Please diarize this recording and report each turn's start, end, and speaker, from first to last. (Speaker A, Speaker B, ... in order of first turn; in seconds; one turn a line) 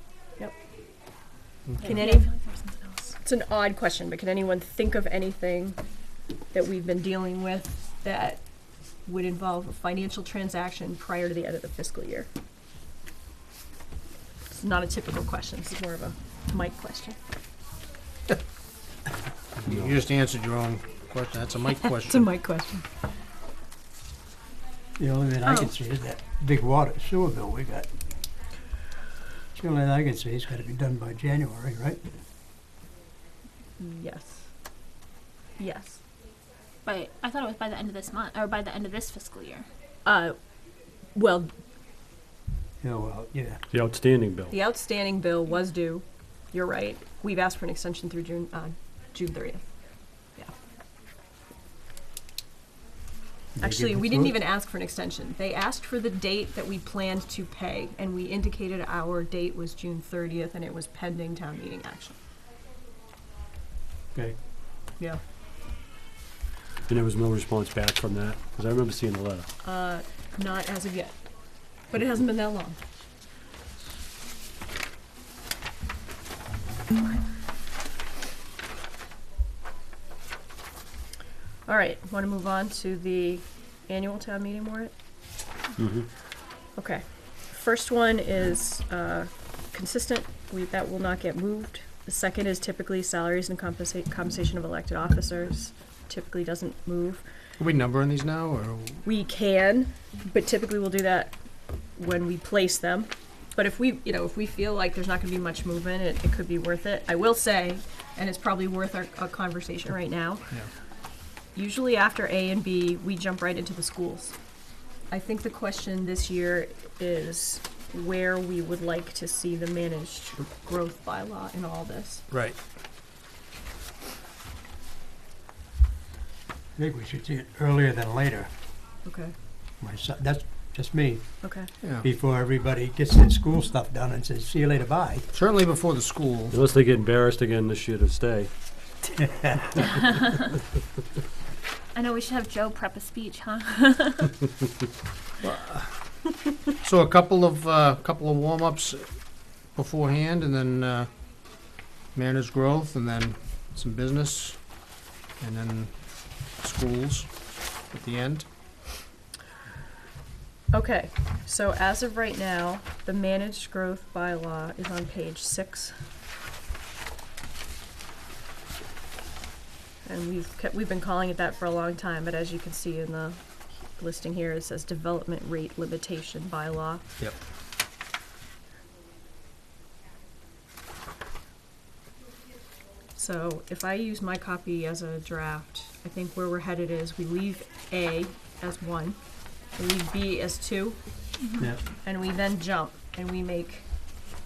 Speaker A: 1.7-2.0
Speaker B: 1.8-3.2
Speaker C: 1.8-2.3
Speaker C: 3.2-5.8
Speaker C: 6.5-8.4
Speaker C: 9.1-12.3
Speaker C: 14.6-17.2
Speaker A: 19.6-22.3
Speaker C: 22.0-22.9
Speaker D: 25.0-27.9
Speaker D: 29.6-32.0
Speaker C: 33.8-34.5
Speaker C: 35.6-36.0
Speaker B: 36.9-39.7
Speaker C: 40.0-40.4
Speaker C: 41.1-41.5
Speaker D: 42.8-43.6
Speaker E: 43.7-44.5
Speaker C: 44.5-49.7
Speaker D: 53.5-54.4
Speaker C: 53.6-62.2
Speaker E: 66.9-69.5
Speaker C: 69.6-71.2
Speaker C: 71.9-72.8
Speaker C: 81.7-84.9
Speaker E: 85.8-86.1
Speaker C: 86.8-97.2
Speaker A: 97.6-99.0
Speaker C: 99.0-101.3
Speaker C: 102.0-110.5
Speaker C: 111.5-114.3
Speaker C: 115.1-122.2
Speaker A: 122.3-122.6
Speaker D: 126.8-128.5
Speaker C: 129.0-129.3
Speaker D: 129.8-131.3
Speaker C: 131.4-131.7
Speaker A: 131.8-132.1
Speaker D: 132.0-135.3
Speaker A: 135.3-136.6
Speaker E: 136.5-138.5
Speaker D: 139.1-139.8
Speaker B: 139.9-140.5
Speaker B: 141.9-144.4
Speaker A: 145.4-146.3
Speaker A: 146.8-149.1
Speaker A: 149.7-151.1
Speaker A: 152.1-154.6
Speaker A: 155.4-156.0
Speaker A: 156.6-157.3
Speaker A: 157.9-158.5
Speaker C: 160.7-165.9
Speaker C: 170.0-173.4
Speaker C: 174.0-177.0
Speaker C: 183.2-189.2
Speaker C: 189.7-191.0
Speaker B: 191.4-191.7
Speaker C: 192.0-193.8